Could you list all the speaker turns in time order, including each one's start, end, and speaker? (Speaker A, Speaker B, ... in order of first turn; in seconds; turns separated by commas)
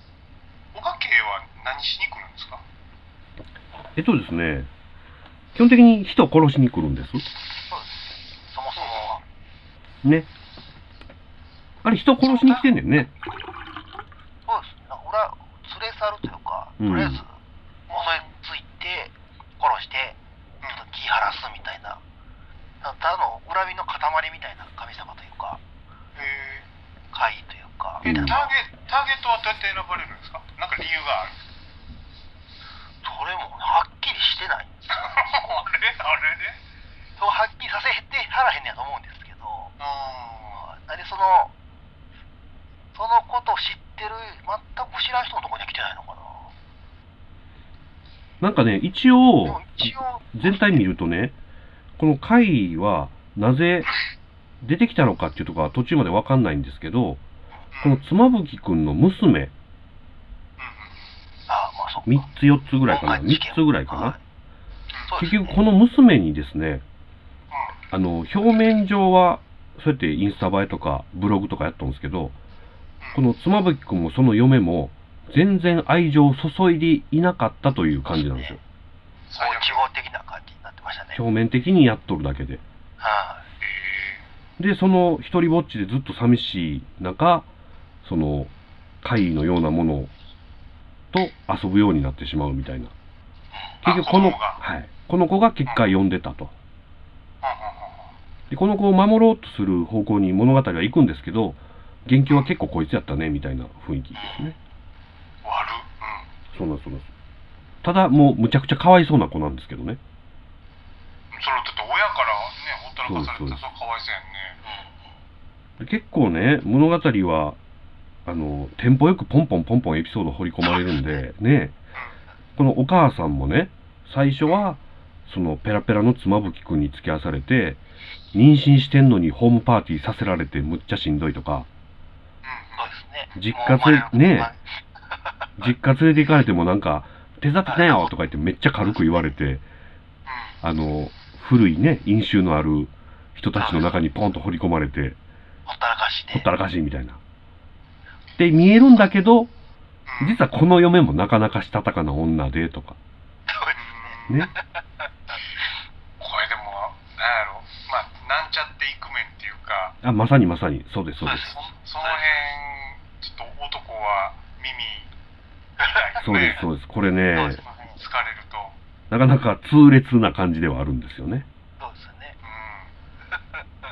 Speaker A: 0.7-2.6, Speaker B: 4.0-4.7, Speaker B: 5.5-7.2, Speaker C: 7.7-8.0, Speaker C: 8.5-9.2, Speaker A: 8.8-9.1, Speaker B: 10.0-10.3, Speaker B: 11.8-13.1, Speaker A: 12.2-12.6, Speaker C: 14.5-17.3, Speaker B: 16.8-17.2, Speaker A: 17.9-18.3, Speaker C: 17.9-22.0, Speaker C: 22.8-25.6, Speaker A: 26.1-26.7, Speaker C: 27.1-28.4, Speaker B: 28.0-28.4, Speaker A: 28.0-31.4, Speaker C: 33.0-35.6, Speaker A: 34.9-36.6, Speaker C: 37.2-39.7, Speaker A: 39.8-40.6, Speaker C: 40.5-41.5, Speaker C: 42.9-46.5, Speaker B: 48.4-51.3, Speaker C: 49.4-50.8, Speaker B: 52.0-53.9, Speaker B: 54.6-57.2, Speaker A: 57.7-58.0, Speaker B: 57.8-59.5, Speaker A: 60.6-61.1, Speaker C: 61.5-62.2, Speaker B: 62.0-64.2, Speaker C: 62.9-64.2, Speaker C: 65.1-65.6, Speaker B: 65.2-66.8, Speaker A: 67.5-67.8, Speaker B: 67.9-72.3, Speaker B: 73.1-78.6, Speaker C: 78.3-78.5, Speaker A: 79.3-79.8, Speaker C: 79.3-81.2, Speaker B: 81.1-82.6, Speaker C: 83.0-83.4, Speaker A: 83.6-84.2, Speaker B: 84.6-87.5, Speaker B: 88.0-88.5, Speaker B: 89.0-90.1, Speaker B: 91.1-92.9, Speaker B: 93.8-96.5, Speaker A: 93.8-94.6, Speaker A: 97.4-98.1, Speaker B: 98.5-104.5, Speaker C: 104.2-104.5, Speaker A: 105.4-106.3, Speaker B: 106.5-107.1, Speaker B: 107.8-110.0, Speaker A: 111.3-114.6, Speaker B: 113.0-113.6, Speaker C: 114.6-115.1, Speaker B: 115.8-117.6, Speaker B: 118.2-121.7, Speaker B: 122.6-127.8, Speaker B: 128.3-131.7, Speaker A: 132.4-132.9, Speaker C: 132.8-135.5, Speaker B: 133.3-134.5, Speaker B: 135.6-139.6, Speaker C: 137.7-138.1, Speaker A: 140.3-140.5, Speaker B: 140.6-145.2, Speaker C: 143.6-143.9, Speaker C: 145.7-146.5, Speaker B: 146.3-147.2, Speaker B: 148.4-149.5, Speaker A: 150.1-150.4, Speaker B: 150.2-153.0, Speaker C: 153.5-154.8, Speaker A: 153.8-154.5, Speaker A: 156.2-159.9, Speaker B: 160.0-161.5, Speaker C: 161.2-162.5, Speaker A: 161.3-165.1, Speaker C: 165.8-166.4, Speaker A: 165.8-166.6, Speaker B: 166.2-167.6, Speaker C: 167.3-168.0, Speaker A: 167.6-168.8, Speaker B: 169.1-171.4, Speaker C: 171.8-172.3, Speaker A: 172.4-172.9